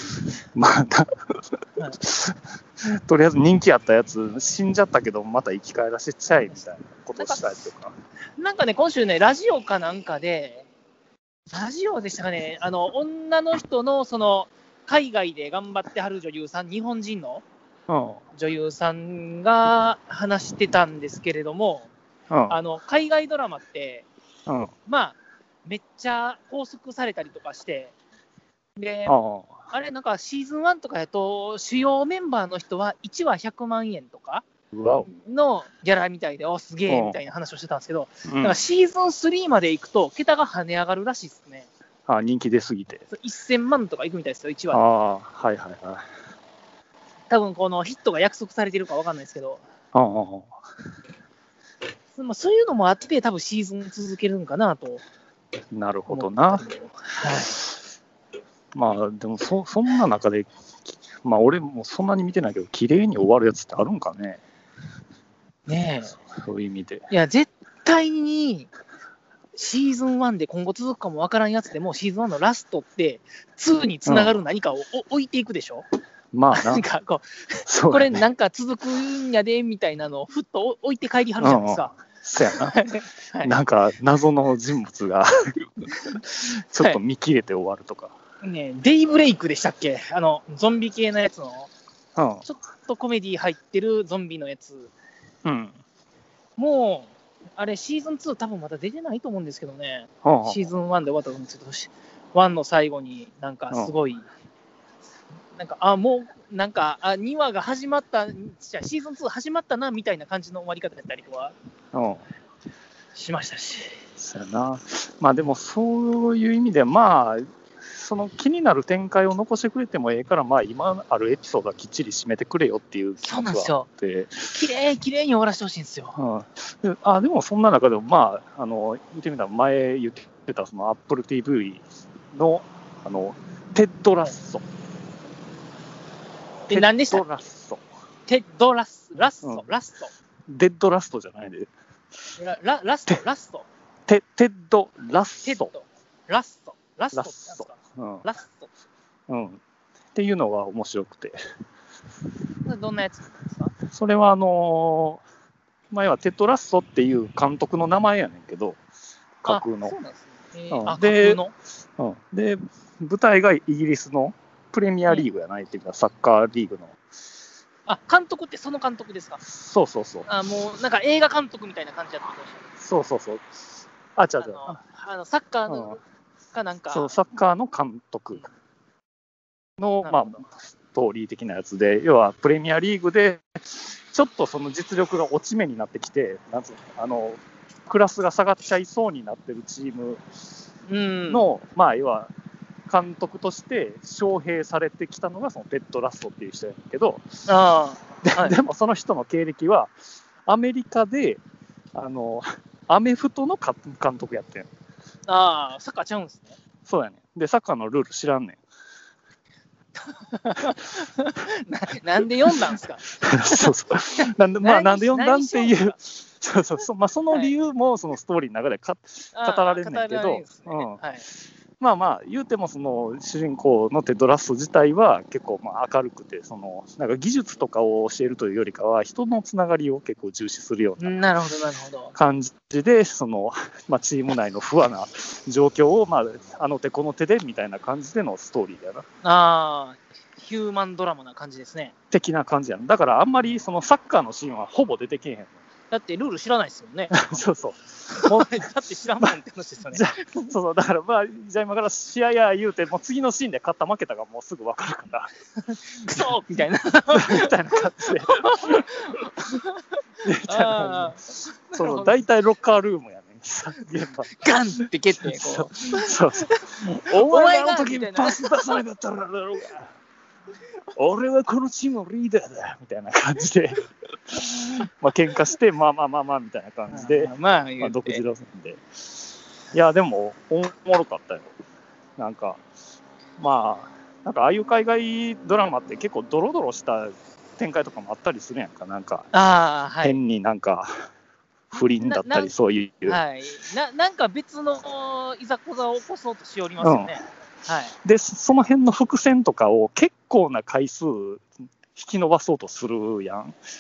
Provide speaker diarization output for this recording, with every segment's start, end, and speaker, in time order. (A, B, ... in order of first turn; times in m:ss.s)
0:00.4-0:01.1 A
0:02.0-0:07.9 A
0:07.2-0:07.6 B
0:08.4-0:10.7 B
0:11.5-0:17.4 B
0:17.9-0:18.2 A
0:18.3-0:21.9 B
0:22.3-0:22.6 A
0:22.5-0:24.1 B
0:24.5-0:24.7 A
0:24.9-0:27.9 B
0:28.8-0:29.2 B
0:29.1-0:29.5 A
0:29.7-0:34.4 B
0:34.7-0:35.1 A
0:35.1-0:41.7 B
0:36.9-0:37.2 A
0:38.3-0:38.6 A
0:42.1-0:43.0 A
0:43.1-0:44.8 B
0:44.7-0:46.1 A
0:47.3-0:49.6 B
0:49.9-0:50.5 A
0:52.2-0:55.0 B
0:55.7-0:56.6 A
0:56.1-0:57.6 B
0:58.7-1:04.4 A
1:05.7-1:06.2 B
1:06.3-1:07.1 A
1:07.1-1:08.7 B
1:09.6-1:15.8 B
1:14.1-1:14.4 A
1:16.3-1:16.8 A
1:16.5-1:23.6 B
1:17.7-1:18.2 A
1:21.4-1:22.8 A
1:23.4-1:28.1 A
1:28.4-1:31.7 B
1:32.2-1:32.4 A
1:32.4-1:34.9 B
1:35.4-1:35.8 A
1:36.6-1:44.3 B
1:40.2-1:40.6 A
1:45.6-1:51.6 B
1:51.9-1:52.2 A
1:53.2-1:54.0 B
1:54.2-2:04.4 A
2:03.2-2:03.9 B
2:04.5-2:06.2 B
2:06.2-2:14.6 A
2:16.7-2:17.2 B
2:16.7-2:17.8 A
2:18.3-2:20.1 B
2:20.5-2:21.7 A
2:22.4-2:23.7 B
2:24.1-2:25.7 A
2:25.4-2:28.7 B
2:27.1-2:28.3 A
2:29.3-2:29.6 A
2:30.2-2:31.4 A
2:32.6-2:33.7 B
2:33.9-2:35.2 A
2:35.9-2:38.8 A
2:39.4-2:40.0 A
2:39.5-2:41.5 B
2:40.7-2:41.4 A
2:42.0-2:47.0 A
2:47.9-2:49.4 B
2:49.5-2:50.3 A
2:50.3-2:52.7 B
2:52.8-2:53.5 A
2:54.2-2:54.8 A
2:54.4-2:56.0 B
2:55.7-2:56.0 A
2:56.5-2:57.2 B
2:56.9-2:58.5 A
2:59.8-3:10.2 A
3:00.0-3:00.4 B
3:10.9-3:11.4 B
3:11.3-3:12.3 A
3:12.9-3:17.2 A
3:17.5-3:18.6 B
3:18.2-3:19.9 A
3:20.5-3:21.4 A
3:21.9-3:24.7 A
3:25.3-3:26.6 B
3:26.9-3:28.6 A
3:30.0-3:36.0 B
3:32.5-3:41.0 A
3:39.4-3:41.3 B
3:41.8-3:51.2 A
3:51.0-3:52.1 B
3:52.2-3:59.0 A
3:59.2-4:01.9 B
4:02.1-4:05.6 A
4:05.9-4:07.4 B
4:07.1-4:08.5 A
4:08.1-4:10.5 B
4:09.9-4:15.3 A
4:15.7-4:22.2 B
4:17.1-4:19.6 A
4:20.2-4:29.9 A
4:24.3-4:28.8 B
4:31.0-4:38.8 A
4:36.9-4:38.2 B
4:39.7-4:41.5 A
4:42.2-4:42.6 A
4:43.4-4:49.3 A
4:49.3-4:50.2 B
4:50.0-4:51.1 A
4:51.7-4:53.2 A
4:51.8-4:52.5 B
4:53.0-4:58.0 B
4:56.8-4:57.2 A
4:58.0-5:03.6 A